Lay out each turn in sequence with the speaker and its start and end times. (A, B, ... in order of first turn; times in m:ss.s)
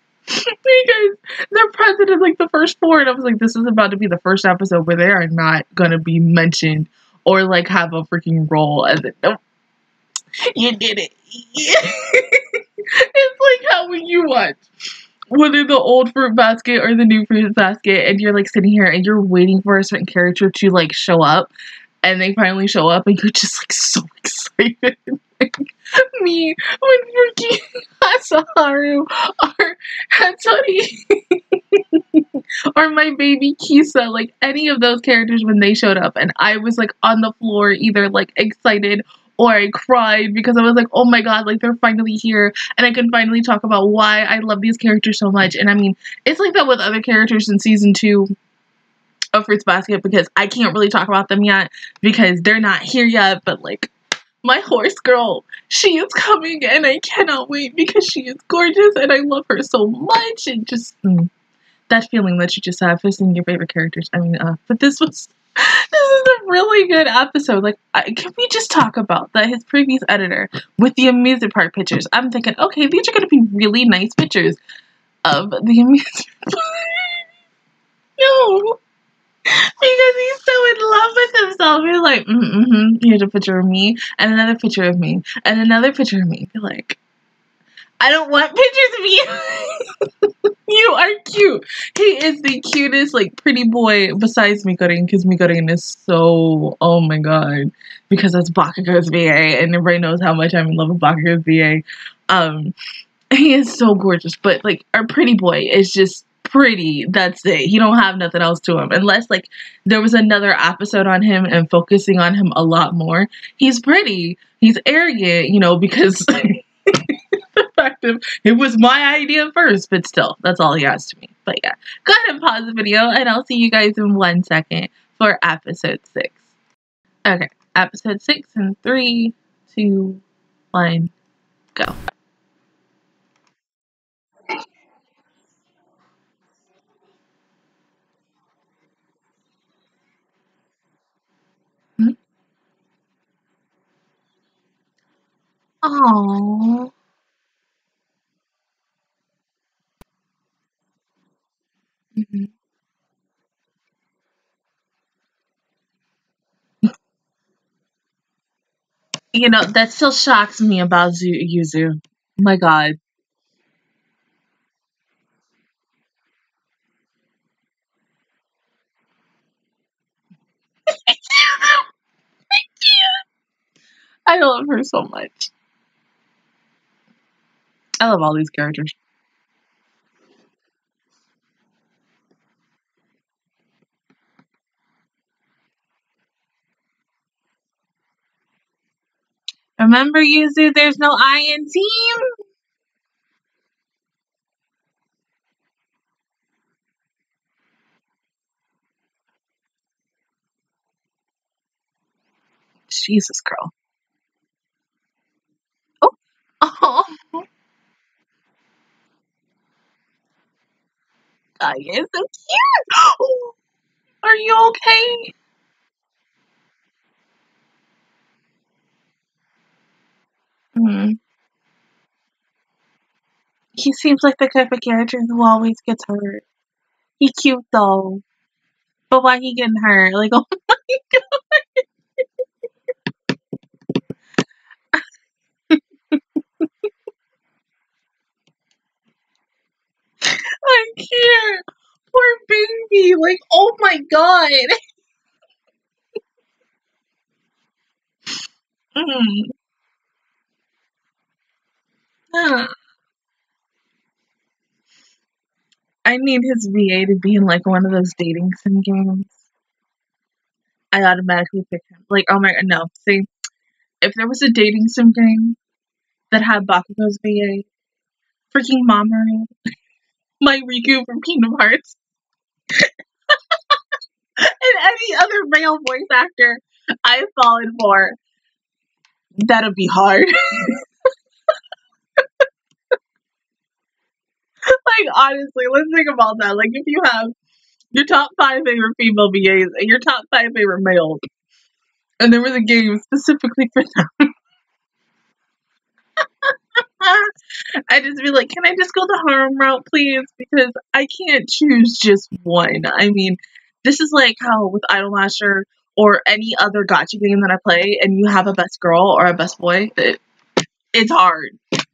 0:00.3-0:09.4 A
0:10.5-0:14.6 A
0:15.3-0:21.5 A
0:22.0-0:48.4 A
0:49.3-0:53.9 A
0:54.4-1:01.3 A
1:01.9-1:14.6 A
1:15.2-1:17.3 A
1:18.2-1:18.8 A
1:19.5-1:27.0 A
1:28.0-1:29.8 A
1:30.7-1:42.7 A
1:43.3-2:06.4 A
2:07.3-2:11.1 A
2:25.8-2:26.9 A
2:32.2-2:32.5 A
2:39.3-2:43.0 A
2:50.9-2:51.8 A
2:52.5-2:53.2 A
2:54.3-2:55.5 A
2:58.0-2:59.0 A
3:09.8-3:12.2 A
3:22.9-3:23.7 A
3:26.0-3:27.4 A
3:31.6-3:33.6 A
3:34.2-3:35.3 A
3:40.8-3:41.2 A
3:43.8-3:46.4 A
3:47.2-3:48.2 A
3:49.1-3:52.2 A
3:55.7-3:56.7 A
4:00.2-4:04.8 A
4:09.0-4:09.5 A
4:12.3-4:12.7 A
4:16.0-4:19.4 A
4:20.9-4:23.3 A
4:24.0-4:25.6 A
4:26.3-4:27.7 A
4:28.5-4:29.5 A
4:30.4-4:32.0 A
4:32.8-4:33.8 A
4:34.4-4:38.2 A
4:39.4-4:40.8 A
4:44.7-4:47.3 A
4:47.9-4:51.2 A
4:52.2-4:54.3 A
4:56.4-4:57.3 A
4:57.9-5:10.2 A
5:10.9-5:11.6 A